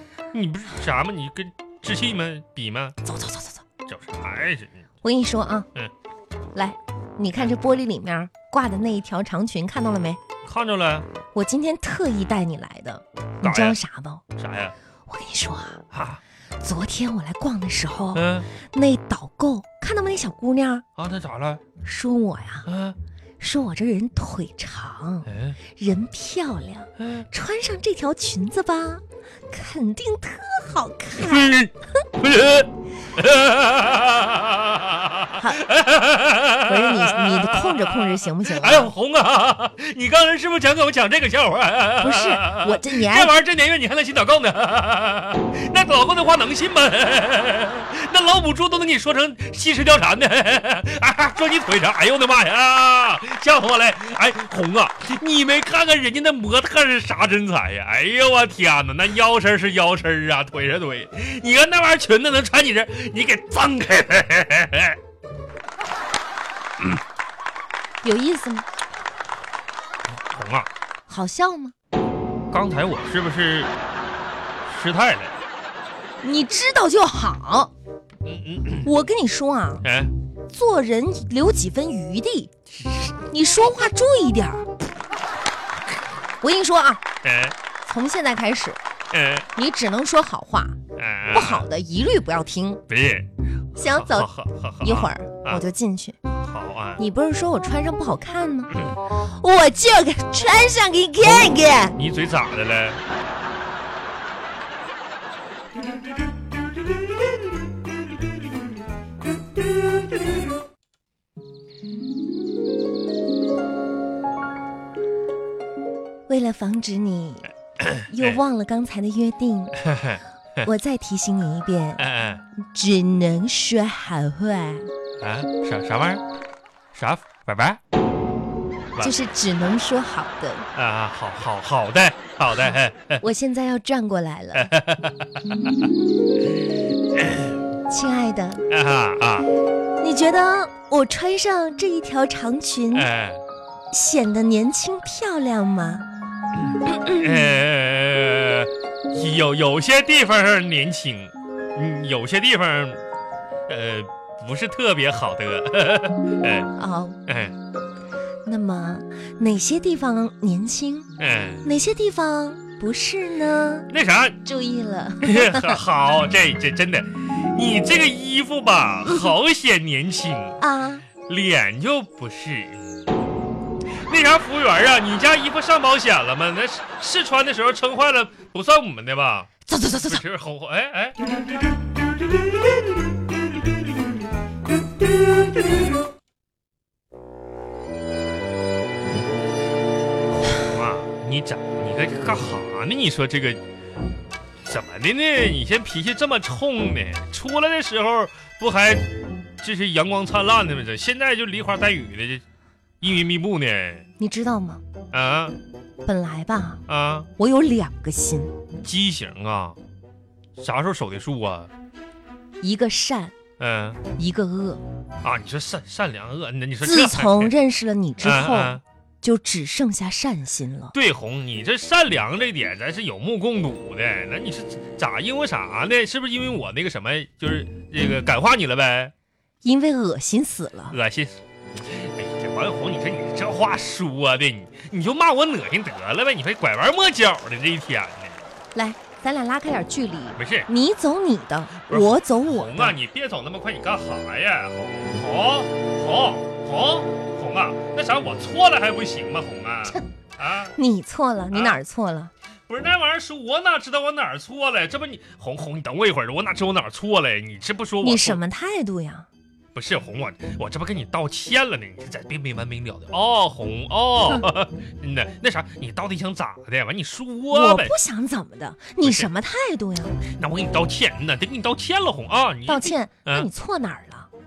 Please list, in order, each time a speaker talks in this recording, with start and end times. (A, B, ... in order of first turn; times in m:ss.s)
0:00.3-0:03.0 A
0:03.0-0:03.6 B
0:03.9-0:04.8 A
0:05.0-0:05.7 B
0:06.5-0:10.2 B
0:07.3-0:07.6 A
0:10.4-0:11.1 A
0:11.3-0:14.2 B
0:13.4-0:13.8 A
0:14.4-0:14.7 A
0:15.1-0:15.8 B
0:15.9-0:16.2 A
0:16.6-0:20.8 B
0:18.1-0:18.5 A
0:21.0-0:21.6 A
0:21.8-0:22.7 B
0:22.6-0:23.0 A
0:23.4-0:31.5 B
0:25.3-0:25.6 A
0:27.0-0:27.3 A
0:31.2-1:05.0 A
0:36.6-0:38.9 B
0:42.0-0:43.4 B
1:08.0-1:08.6 B
1:10.3-1:10.7 A
1:11.1-1:11.7 B
1:12.5-1:13.7 A
1:14.6-1:15.3 A
1:16.2-1:17.7 B
1:18.2-1:18.9 A
1:18.8-1:19.8 B
1:19.8-1:20.1 A
1:20.5-1:22.5 B
1:23.1-1:24.7 B
1:26.4-1:27.0 B
1:27.2-1:27.5 A
1:27.8-1:28.8 B
1:29.1-1:29.5 A
1:29.6-1:30.8 B
1:30.9-1:31.7 A
1:31.3-1:32.8 B
1:32.9-1:35.6 A
1:33.8-1:34.3 B
1:34.8-1:36.2 B
1:36.3-1:37.0 A
1:37.0-1:42.0 B
1:41.2-1:43.0 A
1:56.3-1:57.5 B
1:57.8-1:58.4 A
1:58.1-1:59.8 B
1:59.8-2:00.7 A
2:00.6-2:02.0 B
2:02.0-2:02.4 A
2:02.6-2:04.9 B
2:05.2-2:06.2 A
2:06.9-2:07.8 A
2:09.0-2:10.7 B
2:10.7-2:13.2 A
2:13.2-2:14.7 B
2:14.5-2:15.9 A
2:17.2-2:17.5 A
2:17.9-2:18.6 B
2:18.7-2:19.5 A
2:20.0-2:23.1 B
2:22.9-2:23.4 A
2:23.9-2:26.0 B
2:26.7-2:33.0 A
2:26.9-2:27.4 B
2:33.7-2:36.7 A
2:36.8-2:37.2 B
2:37.3-2:37.5 A
2:38.4-2:41.1 B
2:41.2-2:41.6 A
2:41.6-2:43.9 B
2:43.9-2:44.4 A
2:44.4-2:45.8 B
2:45.2-2:50.6 A
2:50.6-2:51.0 B
2:51.3-2:53.0 A
2:54.0-2:59.5 A
2:59.7-3:00.2 B
3:00.1-3:01.2 A
3:10.5-3:13.6 A
3:14.6-3:19.0 A
3:19.6-3:22.4 A
3:23.0-3:24.0 A
3:24.2-3:24.8 B
3:25.1-3:25.6 A
3:26.0-3:26.8 B
3:26.9-3:27.3 A
3:27.4-3:28.5 B
3:28.8-3:29.8 A
3:30.6-3:31.7 A
3:32.6-3:33.3 B
3:33.6-3:34.0 A
3:34.1-3:34.8 B
3:35.2-3:37.5 A
3:36.8-3:40.9 B
3:38.2-3:38.8 A
3:40.9-3:49.1 A
3:49.6-3:51.0 B
3:50.9-3:51.4 A
3:51.9-3:58.4 A
3:58.7-4:03.0 B
4:00.4-4:00.7 A
4:01.9-4:10.7 A
4:10.8-4:12.3 B
4:11.5-4:11.8 A
4:12.7-4:18.4 A
4:18.0-4:19.3 B
4:19.7-4:27.9 A
4:27.5-4:30.2 B
4:29.0-4:29.3 A
4:30.2-4:33.5 A
4:32.7-4:34.3 B